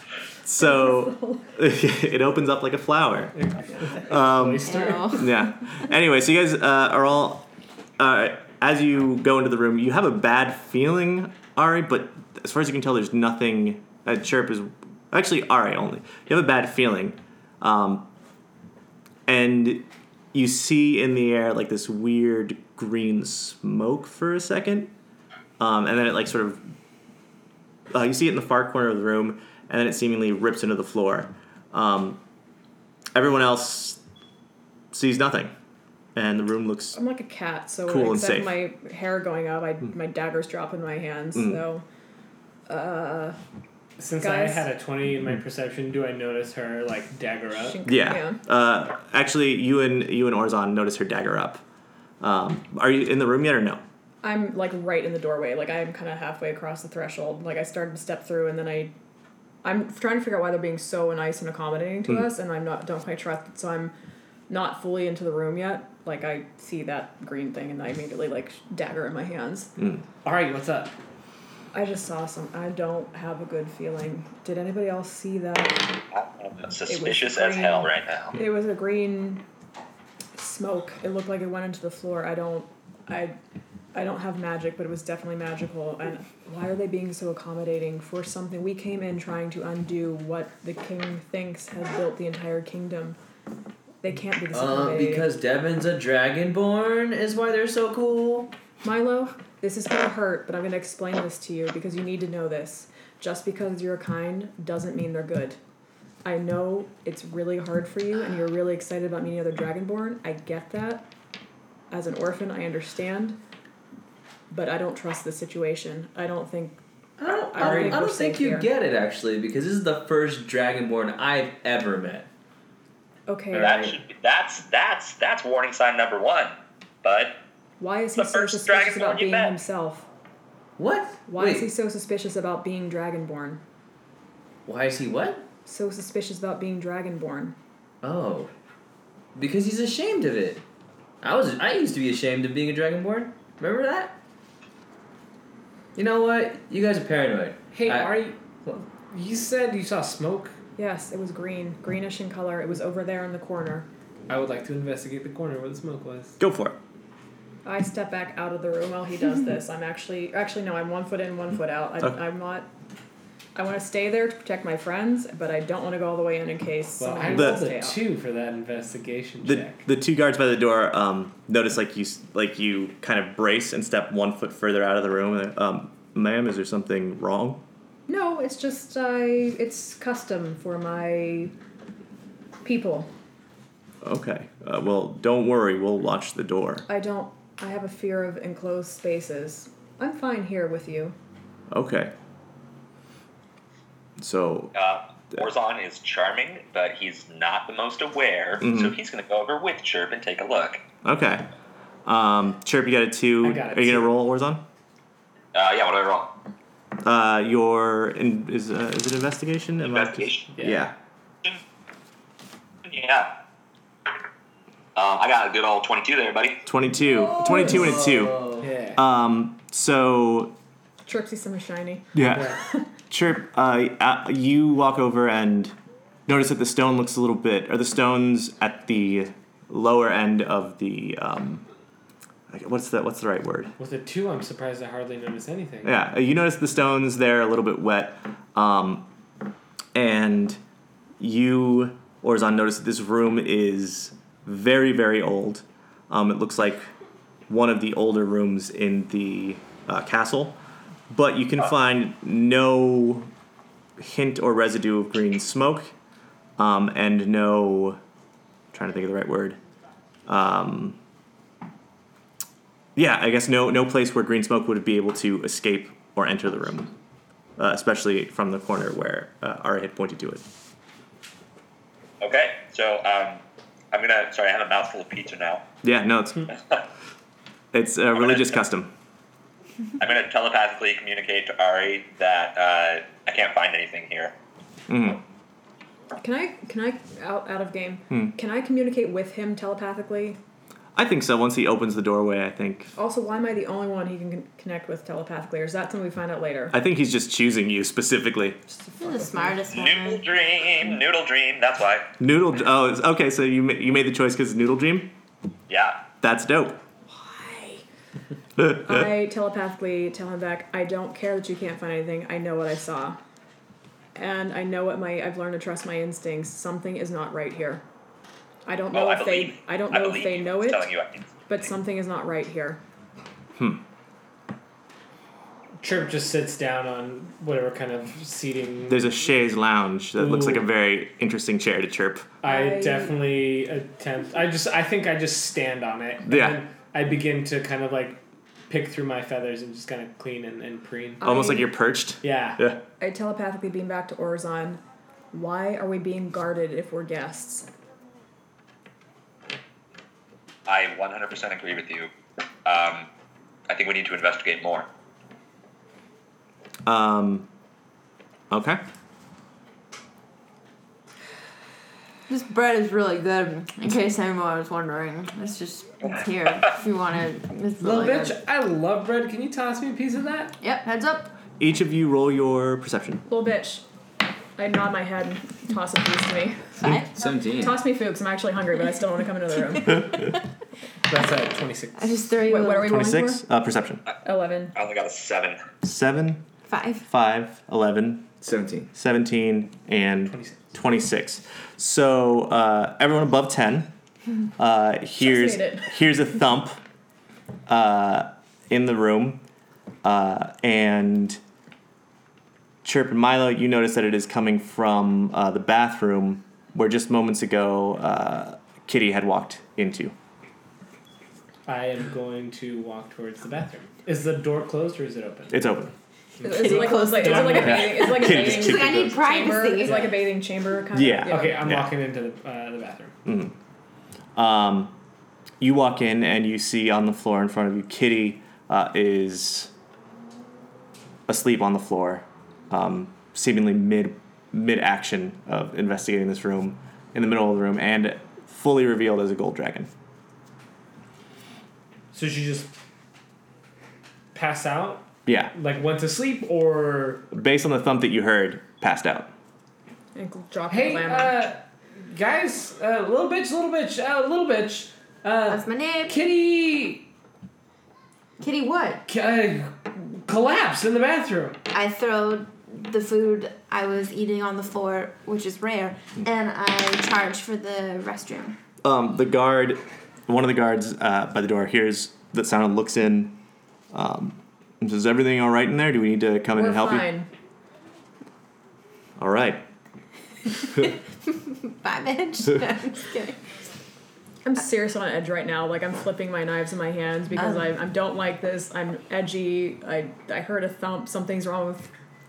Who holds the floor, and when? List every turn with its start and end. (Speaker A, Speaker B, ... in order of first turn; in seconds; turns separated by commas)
Speaker A: 0.4-3.4, Speaker B: 0.6-1.4, Speaker C: 3.4-5.4, Speaker A: 4.0-7.5, Speaker D: 4.6-5.5, Speaker A: 8.0-18.1, Speaker A: 19.3-24.9, Speaker A: 25.6-26.6, Speaker A: 27.9-32.2, Speaker A: 33.1-34.0, Speaker A: 34.9-35.5, Speaker A: 36.1-37.0, Speaker B: 36.9-41.8, Speaker A: 37.9-38.6, Speaker A: 41.4-41.6, Speaker B: 42.7-43.4, Speaker C: 44.0-47.8, Speaker B: 44.2-44.7, Speaker B: 47.5-48.4, Speaker A: 47.8-51.6, Speaker A: 52.2-53.8, Speaker B: 54.2-58.9, Speaker B: 59.6-63.9, Speaker B: 64.5-69.7, Speaker A: 69.8-70.0, Speaker C: 70.2-71.0, Speaker B: 71.7-76.0, Speaker E: 76.1-78.4, Speaker B: 76.9-79.4, Speaker B: 80.3-83.4, Speaker B: 83.9-93.2, Speaker B: 94.0-95.3, Speaker F: 94.5-98.5, Speaker B: 98.8-105.6, Speaker B: 106.2-111.1, Speaker B: 111.9-113.4, Speaker B: 114.5-116.8, Speaker F: 117.2-122.3, Speaker B: 117.5-118.7, Speaker C: 117.6-118.0, Speaker B: 123.3-123.8, Speaker F: 123.5-124.0, Speaker E: 123.5-127.4, Speaker B: 127.8-130.1, Speaker E: 128.2-129.6, Speaker F: 130.8-131.7, Speaker B: 131.3-133.6, Speaker F: 134.7-135.5, Speaker B: 135.7-137.6, Speaker F: 138.0-138.5, Speaker F: 139.3-140.6, Speaker F: 141.2-144.2, Speaker F: 145.9-148.9, Speaker C: 147.7-148.4, Speaker C: 148.9-150.6, Speaker B: 150.8-153.9, Speaker C: 154.3-156.4, Speaker A: 156.4-156.8, Speaker B: 157.7-162.7, Speaker B: 163.6-168.0, Speaker C: 167.0-169.8, Speaker A: 167.3-167.7, Speaker A: 169.4-177.6, Speaker B: 178.1-181.5, Speaker B: 182.6-183.1, Speaker A: 184.0-186.8, Speaker B: 186.9-191.2, Speaker A: 191.7-192.1, Speaker A: 194.2-194.7, Speaker E: 194.8-200.8, Speaker A: 198.6-198.9, Speaker A: 201.0-201.5, Speaker A: 202.1-204.6, Speaker C: 203.4-204.1, Speaker E: 205.5-206.3, Speaker A: 207.0-211.0, Speaker E: 209.8-210.5, Speaker C: 210.6-210.9, Speaker E: 212.8-213.3, Speaker E: 214.9-216.6, Speaker A: 216.7-220.6, Speaker F: 217.1-218.7, Speaker C: 218.6-219.0, Speaker B: 221.1-222.9, Speaker A: 222.1-225.8, Speaker A: 226.3-231.7, Speaker A: 232.5-233.7, Speaker C: 233.8-236.0, Speaker A: 235.8-239.1, Speaker A: 239.9-240.6, Speaker A: 241.2-246.9, Speaker A: 247.5-250.6, Speaker A: 251.1-253.3, Speaker A: 254.0-255.9, Speaker A: 256.6-258.0, Speaker A: 258.7-259.6, Speaker A: 260.3-261.0, Speaker A: 263.0-266.9, Speaker A: 267.6-270.4, Speaker E: 272.2-275.6, Speaker A: 275.8-276.5, Speaker E: 276.5-276.8, Speaker A: 277.7-278.9, Speaker E: 280.0-284.3, Speaker A: 284.9-285.2, Speaker B: 286.2-290.4, Speaker A: 290.9-292.9, Speaker B: 293.0-296.8, Speaker A: 296.7-298.6, Speaker D: 298.9-300.3, Speaker E: 299.7-302.1, Speaker A: 302.2-305.1, Speaker E: 305.7-306.0, Speaker A: 306.2-306.8, Speaker B: 307.1-307.8, Speaker B: 308.6-313.2, Speaker B: 314.1-317.8, Speaker B: 318.7-320.9, Speaker E: 318.9-321.5, Speaker B: 321.5-322.8, Speaker A: 323.6-323.8, Speaker C: 325.8-329.1, Speaker A: 328.9-332.3, Speaker C: 330.2-330.7, Speaker C: 332.4-341.2, Speaker B: 332.4-333.2, Speaker A: 336.3-336.6, Speaker B: 341.2-341.7, Speaker A: 341.2-342.8, Speaker C: 342.2-342.6, Speaker B: 343.0-344.8, Speaker B: 345.3-347.7, Speaker E: 350.7-352.1, Speaker E: 352.6-353.1, Speaker E: 353.7-354.9, Speaker A: 356.9-357.5, Speaker A: 358.5-358.8, Speaker D: 362.3-368.4, Speaker C: 367.8-370.6, Speaker D: 370.6-371.3, Speaker A: 371.6-373.2, Speaker B: 373.3-373.9, Speaker B: 374.6-376.8, Speaker D: 376.8-377.1, Speaker F: 377.1-377.8, Speaker B: 377.5-380.2, Speaker C: 381.1-382.3, Speaker D: 382.0-383.0, Speaker B: 382.4-383.4, Speaker A: 382.8-384.0, Speaker B: 384.2-384.7, Speaker E: 384.7-385.7, Speaker A: 385.8-386.4, Speaker D: 386.7-387.1, Speaker A: 387.0-388.3, Speaker F: 388.4-388.9, Speaker A: 388.9-393.9, Speaker C: 390.3-390.6, Speaker A: 394.6-396.8, Speaker B: 395.2-395.9, Speaker A: 397.7-399.4, Speaker A: 400.0-401.4, Speaker A: 402.8-410.1, Speaker C: 411.7-415.6, Speaker A: 415.5-415.9, Speaker C: 416.4-418.0, Speaker D: 416.4-420.2, Speaker B: 416.5-421.7, Speaker A: 417.6-419.2, Speaker A: 420.9-421.9, Speaker C: 421.3-423.1, Speaker A: 423.3-423.6, Speaker A: 424.4-424.9, Speaker A: 425.6-429.7, Speaker A: 431.3-439.9, Speaker C: 442.1-442.7, Speaker C: 444.3-447.2, Speaker A: 445.3-445.5, Speaker A: 447.3-449.3, Speaker B: 450.1-451.5, Speaker C: 450.7-457.1, Speaker D: 455.4-456.2, Speaker D: 458.4-459.1, Speaker C: 459.1-461.6, Speaker D: 461.7-468.6, Speaker A: 468.8-473.4, Speaker A: 473.9-477.1, Speaker B: 476.5-477.3, Speaker A: 479.2-479.6, Speaker D: 480.7-483.4, Speaker B: 484.4-491.9, Speaker D: 487.4-487.7